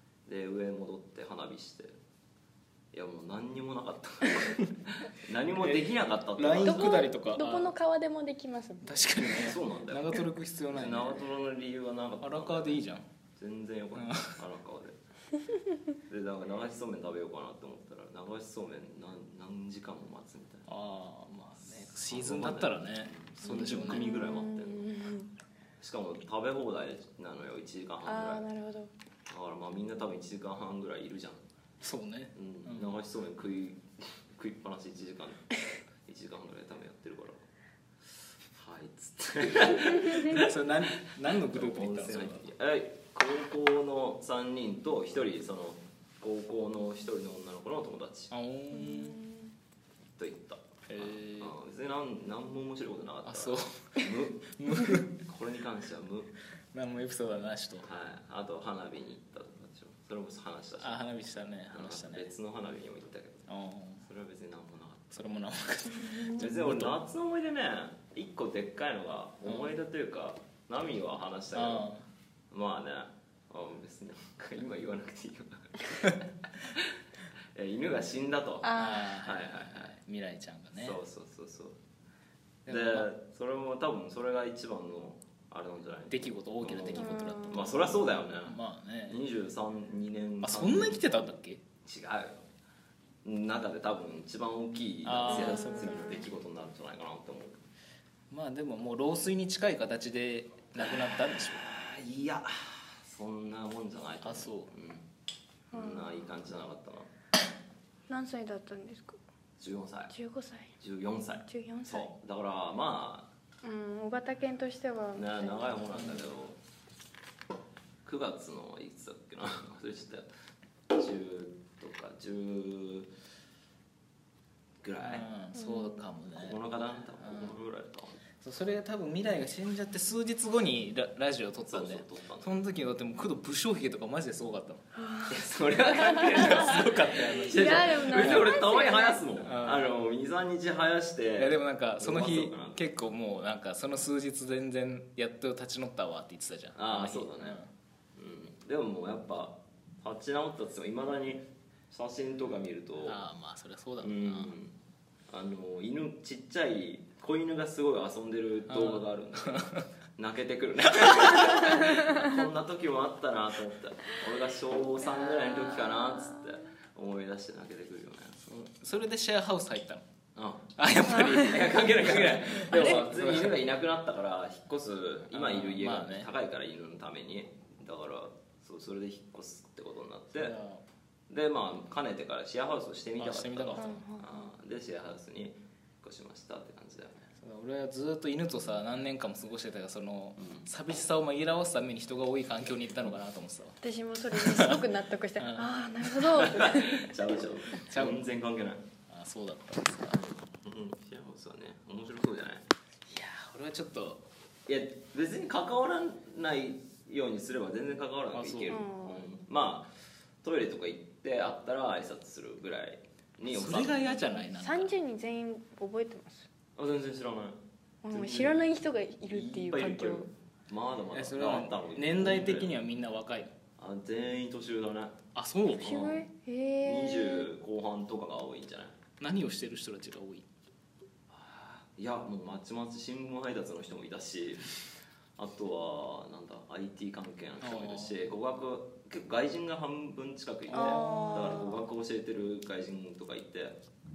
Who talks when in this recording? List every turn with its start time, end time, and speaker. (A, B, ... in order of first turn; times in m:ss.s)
0:00.3-0:02.0 A
0:02.9-0:07.1 A
0:05.5-0:07.7 B
0:06.6-0:08.9 C
0:08.8-0:11.2 B
0:09.4-0:12.8 A
0:12.2-0:13.0 B
0:13.4-0:15.0 A
0:14.0-0:14.4 B
0:16.1-0:20.7 A
0:20.7-0:24.1 B
0:21.6-0:24.9 A
0:23.4-0:25.3 C
0:25.8-0:28.5 A
0:28.0-0:28.9 C
0:29.3-0:31.4 A
0:31.8-0:33.0 B
0:32.4-0:35.5 A
0:36.1-0:37.4 A
0:38.6-0:40.5 A
0:40.2-0:42.4 B
0:41.4-0:48.3 A
0:48.3-0:49.2 B
0:48.7-0:49.5 C
0:50.2-0:54.4 A
0:50.9-0:51.5 B
0:53.2-0:55.2 B
0:55.1-0:56.3 A
0:56.7-0:57.9 B
0:57.8-1:01.0 A
1:00.8-1:02.3 B
1:01.7-1:03.5 A
1:03.5-1:04.0 B
1:04.0-1:05.2 A
1:05.1-1:07.0 B
1:06.3-1:11.9 A
1:09.4-1:09.7 B
1:11.5-1:12.0 B
1:12.5-1:16.9 A
1:17.6-1:20.0 A
1:18.6-1:19.2 C
1:18.8-1:21.0 B
1:20.8-1:21.8 A
1:22.7-1:23.1 B
1:22.7-1:31.3 A
1:26.1-1:27.9 B
1:26.9-1:27.9 C
1:28.4-1:29.2 B
1:30.4-1:31.6 B
1:31.8-1:32.4 A
1:33.2-1:37.6 A
1:35.0-1:35.9 B
1:35.2-1:36.3 C
1:38.3-1:41.6 B
1:40.8-1:45.1 A
1:44.2-1:44.7 B
1:45.7-1:47.1 A
1:45.7-1:46.2 C
1:48.1-1:49.2 C
1:49.6-1:50.1 A
1:50.1-1:50.7 C
1:50.8-1:53.3 A
1:51.5-1:52.1 C
1:53.6-1:56.0 C
1:55.2-1:56.6 A
1:55.9-1:56.2 B
1:58.0-2:00.3 A
2:00.9-2:03.1 A
2:04.8-2:05.3 A
2:05.0-2:07.6 B
2:05.5-2:06.1 C
2:06.3-2:08.2 A
2:08.4-2:14.8 B
2:11.7-2:12.6 A
2:15.0-2:15.4 C
2:15.3-2:22.9 A
2:16.0-2:18.6 B
2:16.2-2:16.7 C
2:17.4-2:19.2 C
2:19.4-2:19.9 B
2:21.4-2:27.7 B
2:26.8-2:27.6 A
2:28.2-2:33.2 A
2:33.1-2:34.5 B
2:34.0-2:34.8 A
2:35.3-2:48.4 A
2:38.7-2:39.9 B
2:41.8-2:42.1 C
2:45.2-2:46.4 C
2:48.4-2:50.0 B
2:50.4-3:00.6 A
2:50.8-2:53.6 B
2:51.1-2:51.5 C
2:55.3-2:56.3 B
3:00.3-3:00.8 B
3:01.3-3:07.3 A
3:03.2-3:04.0 B
3:03.8-3:04.5 C
3:07.4-3:13.8 B
3:10.4-3:10.7 A
3:13.8-3:17.1 C
3:14.3-3:14.8 B
3:15.4-3:15.7 B
3:16.4-3:18.8 A
3:17.9-3:18.2 B
3:19.1-3:20.2 B
3:20.1-3:22.6 A
3:23.1-3:24.2 B
3:24.7-3:29.9 A
3:28.3-3:28.8 B
3:28.7-3:29.3 C
3:30.4-3:34.2 A
3:33.5-3:34.9 B
3:34.4-3:36.5 C
3:36.8-3:37.6 A
3:38.0-3:40.3 C
3:38.1-3:38.6 A
3:39.3-3:42.8 A
3:41.1-3:43.5 B
3:43.8-3:45.2 A
3:45.4-3:46.0 B
3:45.7-3:47.5 C
3:45.8-3:46.3 A
3:46.8-3:49.0 A
3:49.2-3:50.5 B
3:51.3-3:54.7 A
3:55.4-4:03.8 A
3:57.6-3:58.2 B
4:00.7-4:01.6 B
4:00.7-4:01.8 C